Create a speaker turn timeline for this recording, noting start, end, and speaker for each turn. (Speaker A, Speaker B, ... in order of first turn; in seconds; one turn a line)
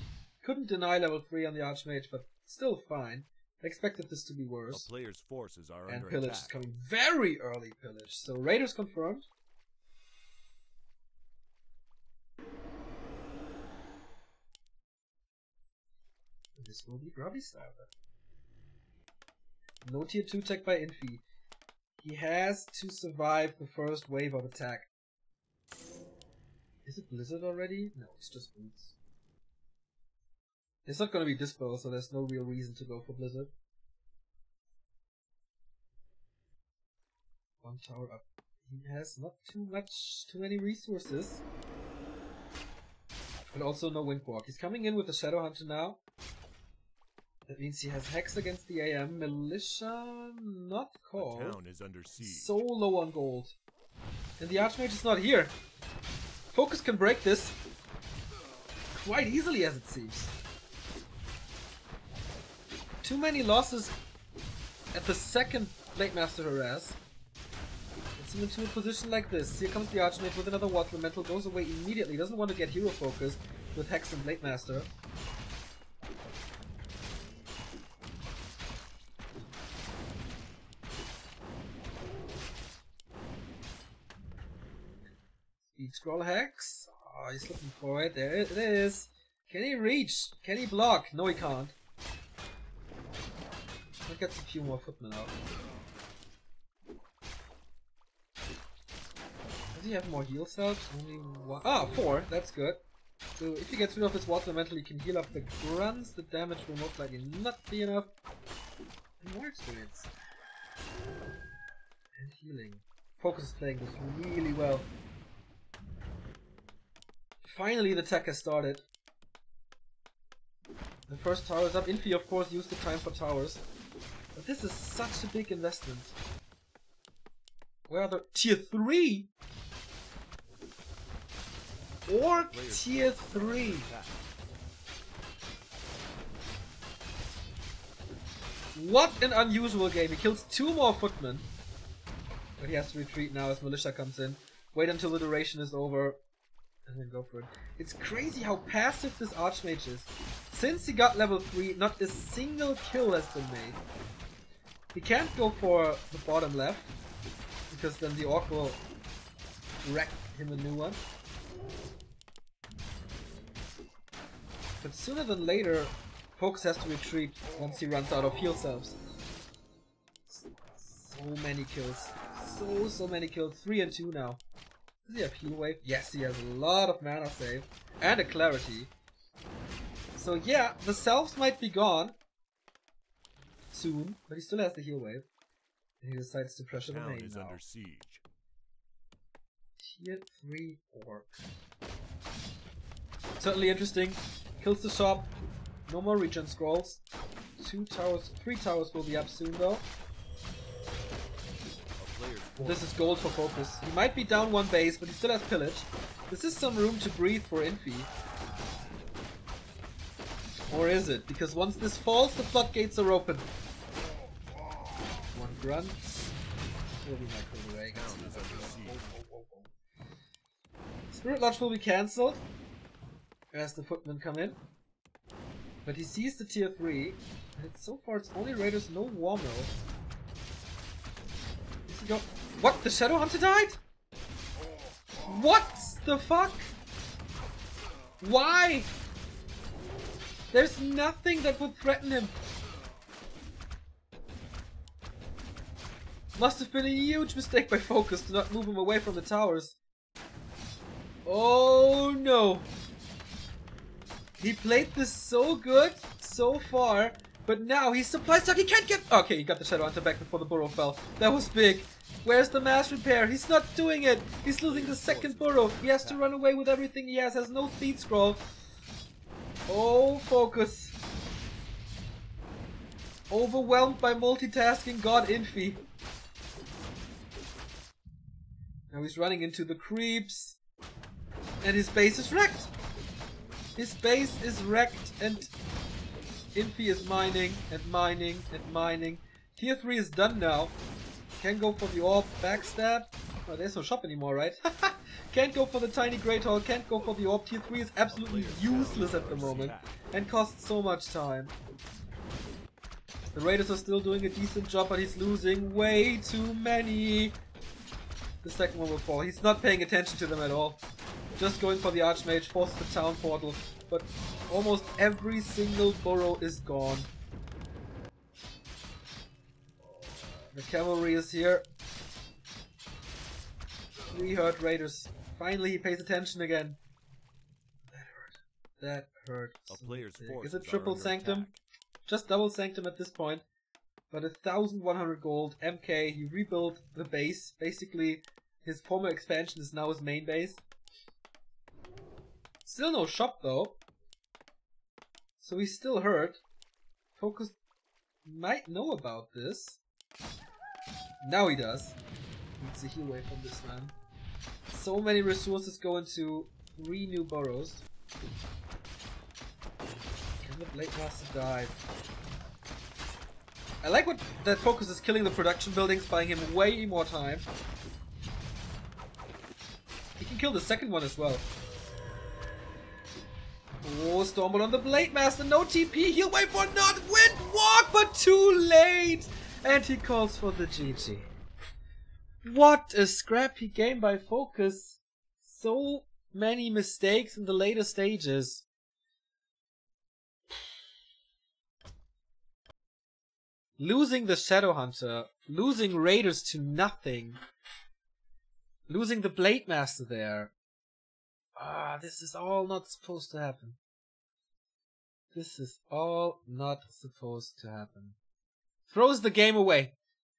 Speaker A: 0.4-4.9
Speaker B: 4.7-6.5
Speaker A: 5.9-9.2
Speaker A: 16.6-17.9
Speaker A: 19.8-21.2
Speaker A: 22.0-24.9
Speaker A: 26.9-29.0
Speaker A: 30.9-33.5
Speaker A: 37.6-41.4
Speaker A: 43.5-46.0
Speaker A: 47.5-51.6
Speaker B: 51.1-52.5
Speaker A: 52.2-53.5
Speaker A: 54.4-55.5
Speaker A: 56.5-57.6
Speaker A: 58.9-60.3
Speaker A: 63.0-64.0
Speaker A: 64.9-67.0
Speaker A: 68.2-74.9
Speaker A: 85.8-91.7
Speaker A: 94.0-95.3
Speaker A: 99.7-102.8
Speaker A: 103.4-108.1
Speaker A: 109.2-110.1
Speaker A: 112.1-114.9
Speaker A: 117.4-118.8
Speaker A: 121.1-123.6
Speaker A: 124.3-126.2
Speaker A: 127.9-129.3
Speaker A: 132.1-133.9
Speaker B: 132.4-134.3
Speaker A: 138.8-141.5
Speaker A: 142.6-146.2
Speaker A: 146.8-153.8
Speaker A: 154.9-156.9
Speaker A: 157.7-158.8
Speaker A: 159.8-161.0
Speaker A: 164.8-169.0
Speaker A: 170.3-174.4
Speaker A: 175.1-178.9
Speaker A: 180.2-182.2
Speaker A: 183.7-185.2
Speaker A: 186.0-187.6
Speaker B: 186.8-188.2
Speaker A: 189.8-191.3
Speaker A: 193.4-195.3
Speaker A: 195.9-197.0
Speaker A: 197.6-199.8
Speaker B: 202.0-203.0
Speaker A: 202.6-208.1
Speaker A: 210.7-213.5
Speaker A: 215.3-216.3
Speaker A: 217.0-219.7
Speaker B: 217.9-219.1
Speaker A: 221.1-222.4
Speaker A: 223.5-224.6
Speaker A: 225.8-229.8
Speaker A: 231.9-233.8
Speaker A: 235.2-236.7
Speaker A: 238.2-238.9
Speaker A: 240.5-242.4
Speaker A: 246.3-249.8
Speaker A: 251.2-252.7
Speaker A: 254.4-268.4
Speaker B: 264.6-266.4
Speaker A: 269.7-271.0
Speaker A: 273.3-275.8
Speaker A: 278.9-280.6
Speaker A: 281.6-282.7
Speaker A: 283.8-285.5
Speaker A: 286.5-290.8
Speaker A: 291.4-301.5
Speaker B: 298.1-300.0
Speaker A: 303.4-307.4
Speaker A: 308.4-310.8
Speaker A: 311.4-317.1
Speaker A: 320.5-321.7
Speaker A: 324.1-326.8
Speaker A: 327.9-331.5
Speaker B: 329.7-331.6
Speaker A: 332.1-333.4
Speaker A: 334.1-340.6
Speaker A: 342.6-343.8
Speaker A: 345.4-346.4
Speaker A: 347.1-347.6
Speaker A: 348.2-349.8
Speaker A: 351.2-352.0
Speaker A: 352.6-353.9
Speaker A: 354.7-357.8
Speaker A: 360.4-361.8
Speaker A: 363.8-367.5
Speaker A: 370.2-371.5
Speaker A: 373.8-381.3
Speaker A: 382.4-388.6
Speaker A: 393.8-397.4
Speaker A: 398.9-400.5
Speaker A: 401.6-403.8
Speaker A: 405.3-408.1
Speaker A: 408.9-409.9